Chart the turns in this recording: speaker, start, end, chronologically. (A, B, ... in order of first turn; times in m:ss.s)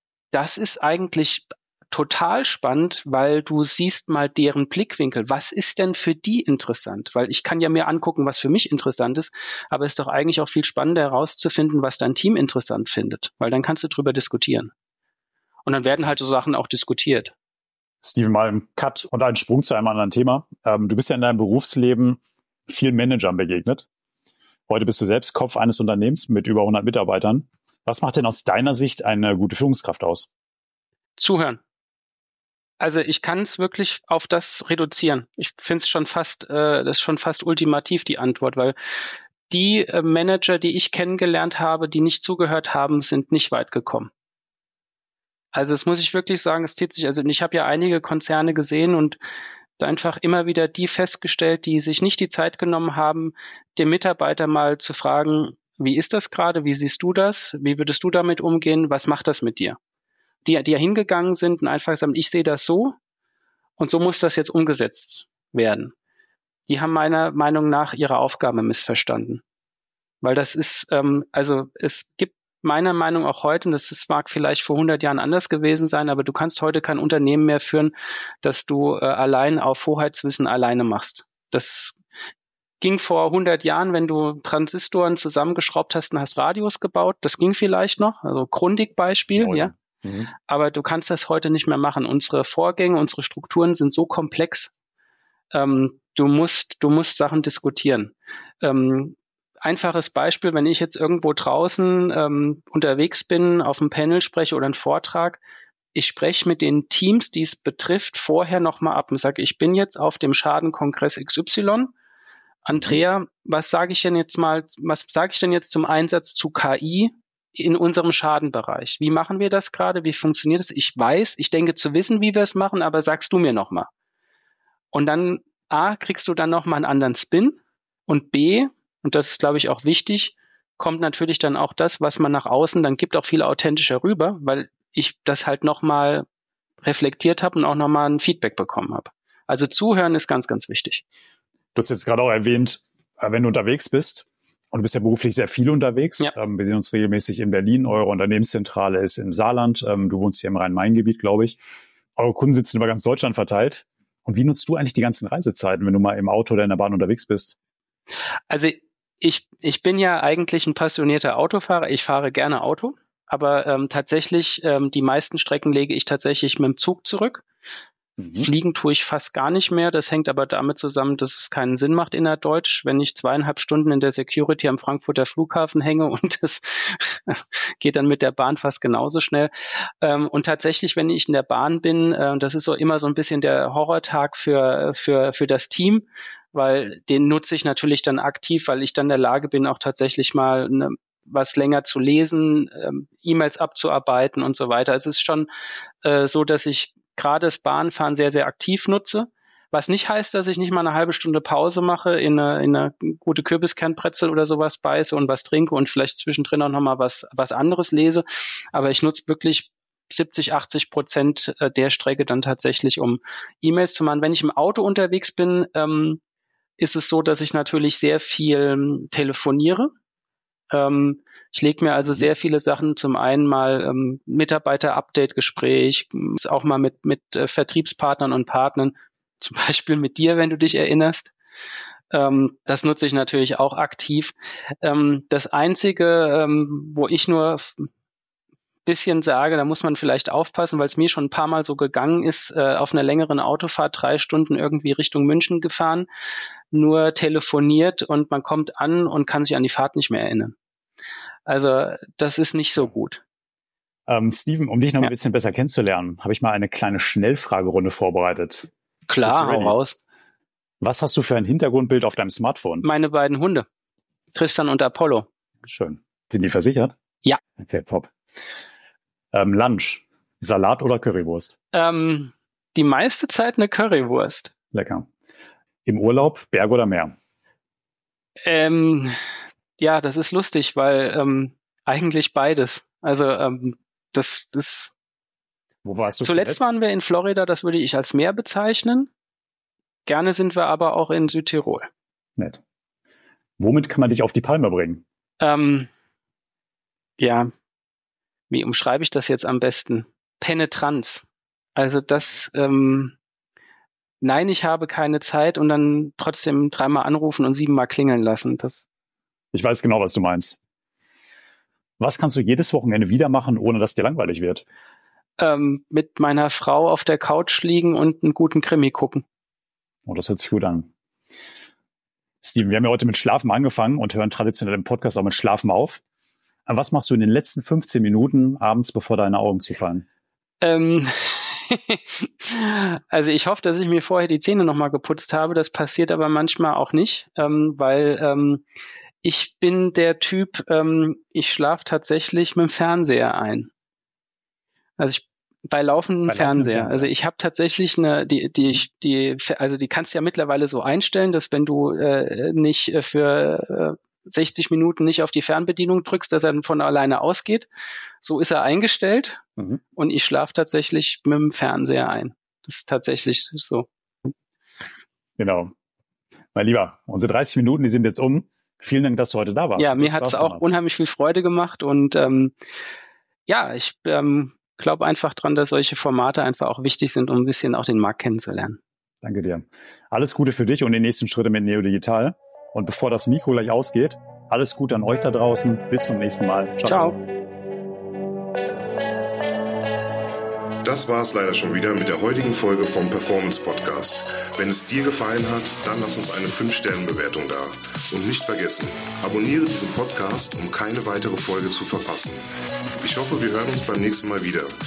0:00.3-0:14.7 A
0:15.6-0:17.3 A
0:18.0-0:23.9 B
0:24.7-0:30.3 B
0:31.2-0:31.6 A
0:32.8-0:38.7 A
0:39.5-0:44.1 A
0:45.5-0:49.2 A
0:49.8-0:59.8 A
1:00.4-1:03.0 A
1:03.8-1:05.9 A
1:06.7-1:09.4 A
1:10.2-1:22.0 A
1:22.8-1:29.8 A
1:29.3-1:30.3 B
1:30.5-1:34.7 A
1:35.5-1:45.4 A
1:45.9-1:51.9 A
1:52.6-2:03.9 A
1:52.8-1:53.0 B
2:04.9-2:16.2 A
2:16.8-2:21.0 A
2:21.7-2:31.6 B
2:32.2-2:37.5 B
2:38.5-2:47.4 A
2:48.2-2:48.5 B
2:48.3-3:15.5 A
3:16.0-3:36.2 A
3:36.8-3:39.9 A
3:40.7-3:51.3 A
3:52.1-3:57.9 A
3:58.8-4:06.1 A
4:06.7-4:10.5 A
4:11.5-4:13.2 A
4:14.1-4:18.7 B
4:19.1-4:20.0 A
4:19.2-4:19.8 B
4:20.8-4:22.8 B
4:22.8-4:23.6 A
4:24.3-4:25.3 A
4:25.6-4:26.9 B
4:27.6-4:28.1 B
4:29.3-4:31.5 B
4:31.7-4:34.5 A
4:34.7-4:35.1 B
4:35.8-4:37.2 B
4:38.4-4:39.1 A
4:39.8-4:44.9 A
4:45.8-4:46.7 B
4:46.2-4:49.1 A
4:50.0-4:51.9 A
4:53.6-4:55.0 B
4:55.4-4:55.9 A
4:57.2-4:57.5 A
4:58.5-5:03.2 A
5:04.2-5:08.8 A
5:09.5-5:10.6 B
5:12.0-5:14.6 B
5:15.4-5:19.2 A
5:20.0-5:20.9 B
5:22.4-5:26.0 B
5:26.7-5:30.0 B
5:30.6-5:38.6 A
5:39.2-5:43.7 A
5:45.0-5:57.7 A
5:46.3-5:47.1 B
5:58.2-5:59.4 A
5:59.9-6:03.9 A
6:05.4-6:05.7 B
6:06.5-6:10.6 B
6:09.8-6:12.5 A
6:13.5-6:18.8 A
6:19.2-6:27.2 B
6:26.8-6:27.2 A
6:30.8-6:42.4 C
6:43.0-6:44.7 C